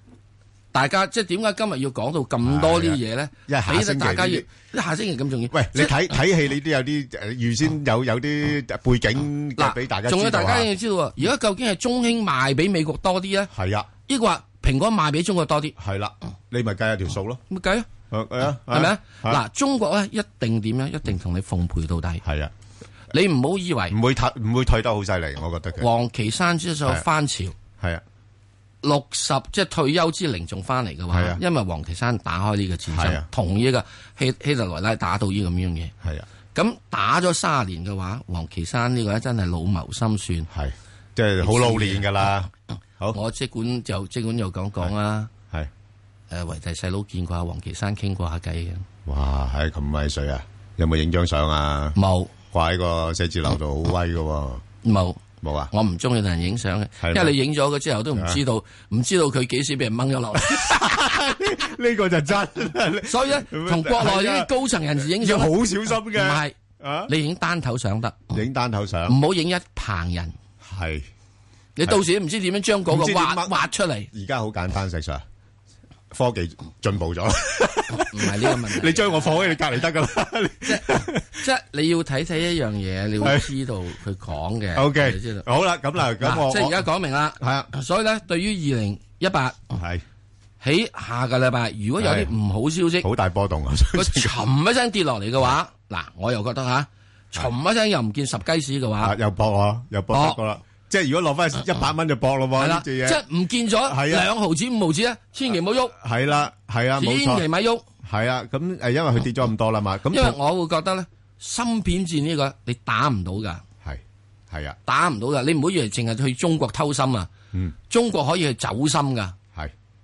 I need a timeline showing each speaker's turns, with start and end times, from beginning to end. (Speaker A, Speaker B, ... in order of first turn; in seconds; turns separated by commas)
Speaker A: 0.7-6.1, Speaker B: 2.4-4.5, Speaker B: 5.5-10.7, Speaker A: 9.6-13.5, Speaker B: 13.5-13.9, Speaker A: 14.1-15.8, Speaker B: 15.8-17.4, Speaker A: 17.5-17.9, Speaker B: 18.1-19.4, Speaker A: 18.7-22.2, Speaker B: 22.2-22.5, Speaker A: 23.1-23.9, Speaker B: 23.9-25.9, Speaker A: 25.8-27.6, Speaker A: 28.8-35.9, Speaker B: 31.1-31.4, Speaker B: 32.9-33.2, Speaker A: 36.5-40.5, Speaker B: 40.5-42.5, Speaker A: 41.4-42.1, Speaker A: 43.1-45.3, Speaker A: 46.3-48.9, Speaker B: 49.0-52.0, Speaker A: 52.0-52.3, Speaker B: 52.5-54.6, Speaker A: 54.8-61.3, Speaker B: 55.4-55.7, Speaker B: 57.0-57.3, Speaker B: 58.1-58.4, Speaker B: 60.4-67.1, Speaker A: 63.0-66.5, Speaker A: 67.1-68.3, Speaker B: 68.3-69.2, Speaker A: 69.1-70.3, Speaker B: 70.6-71.1, Speaker A: 71.8-74.1, Speaker B: 72.9-73.6, Speaker B: 74.1-75.2, Speaker B: 76.1-81.4, Speaker A: 78.1-79.4, Speaker A: 80.6-85.5, Speaker B: 83.2-83.5, Speaker B: 84.7-86.8, Speaker A: 86.2-89.6, Speaker B: 87.4-87.7, Speaker B: 89.7-90.0, Speaker A: 90.6-93.1, Speaker B: 92.0-92.3, Speaker B: 93.0-94.3, Speaker A: 93.9-99.1, Speaker B: 99.0-103.2, Speaker A: 100.1-100.4, Speaker A: 102.6-106.0, Speaker B: 103.8-104.3, Speaker B: 105.9-107.5, Speaker A: 107.0-107.8, Speaker B: 108.0-110.4, Speaker A: 110.1-113.6, Speaker B: 113.8-114.8, Speaker A: 114.8-117.3, Speaker A: 117.9-119.3